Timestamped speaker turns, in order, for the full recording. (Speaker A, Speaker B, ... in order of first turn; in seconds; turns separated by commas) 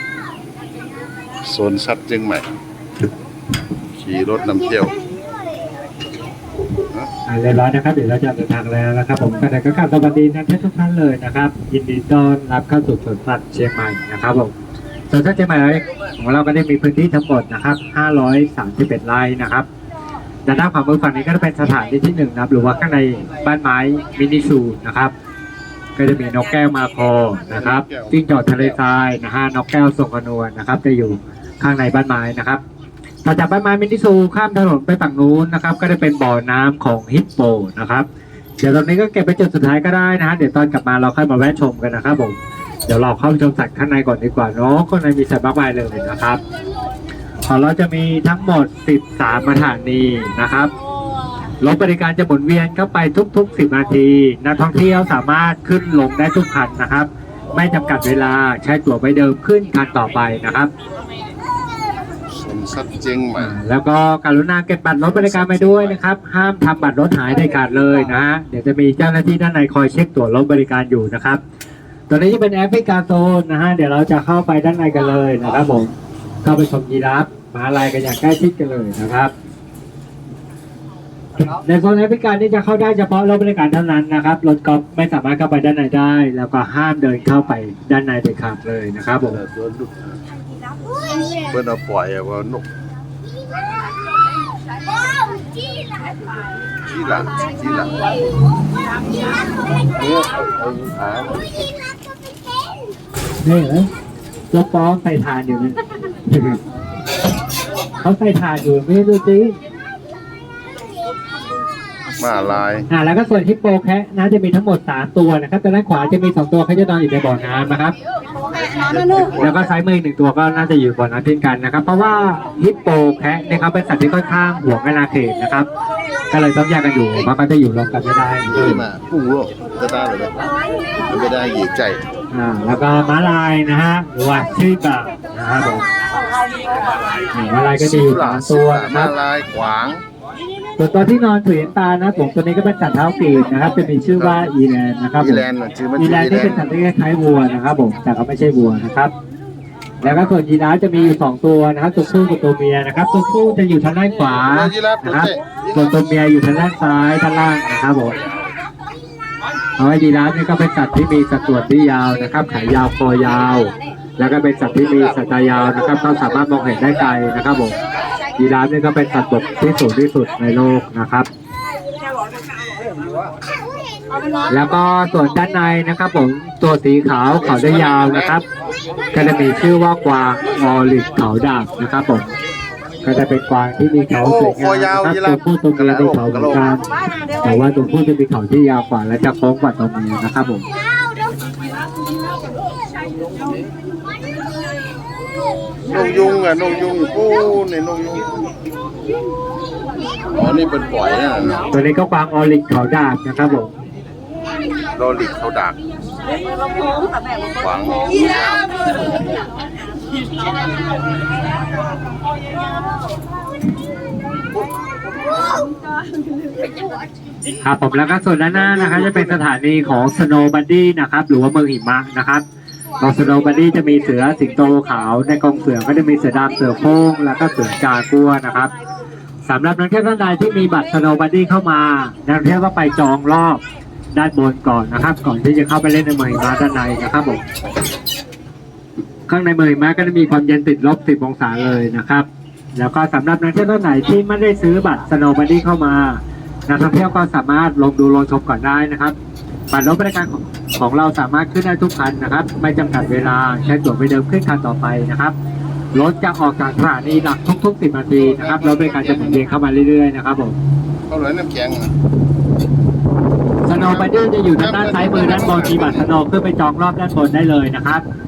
Speaker A: 1.4-2.5, Speaker A: 3.9-5.0, Speaker B: 7.3-14.5, Speaker B: 15.1-19.7, Speaker B: 20.4-25.1, Speaker B: 25.9-32.6, Speaker A: 27.5-28.8, Speaker B: 33.2-38.0, Speaker B: 38.6-46.4, Speaker B: 47.4-50.7, Speaker B: 51.6-60.7, Speaker A: 62.3-63.5, Speaker B: 63.4-71.4, Speaker A: 65.0-66.0, Speaker B: 72.1-79.3, Speaker B: 81.4-89.4, Speaker A: 89.2-90.2, Speaker A: 91.3-92.7, Speaker A: 96.8-98.0, Speaker A: 99.9-101.4, Speaker B: 103.4-103.9, Speaker B: 104.5-106.6, Speaker B: 108.0-109.5, Speaker A: 112.2-112.9, Speaker B: 112.9-117.9, Speaker A: 118.5-119.7, Speaker B: 119.4-125.7, Speaker B: 126.3-128.8, Speaker A: 128.5-130.5, Speaker A: 131.1-132.0, Speaker B: 132.3-135.8, Speaker B: 137.3-139.1, Speaker A: 137.7-140.0, Speaker B: 140.8-145.4, Speaker A: 144.2-144.5, Speaker A: 145.2-146.6, Speaker B: 146.0-149.1, Speaker A: 150.0-150.4, Speaker B: 150.0-158.2, Speaker A: 154.4-155.9, Speaker B: 159.8-167.8, Speaker B: 168.4-171.3, Speaker B: 174.5-178.4, Speaker A: 177.4-178.4, Speaker B: 179.1-182.3, Speaker B: 183.0-186.8, Speaker A: 184.1-186.7, Speaker B: 187.4-190.7, Speaker A: 195.9-198.4, Speaker A: 200.3-201.7, Speaker B: 201.7-203.7, Speaker A: 204.9-205.8, Speaker A: 207.5-208.4, Speaker B: 217.6-222.4, Speaker B: 223.0-228.7, Speaker B: 229.4-233.6, Speaker B: 234.1-237.4, Speaker B: 239.3-249.2, Speaker B: 249.7-255.3, Speaker B: 255.9-260.6, Speaker A: 258.1-259.5, Speaker A: 261.1-261.9, Speaker B: 263.6-268.0, Speaker A: 263.7-266.1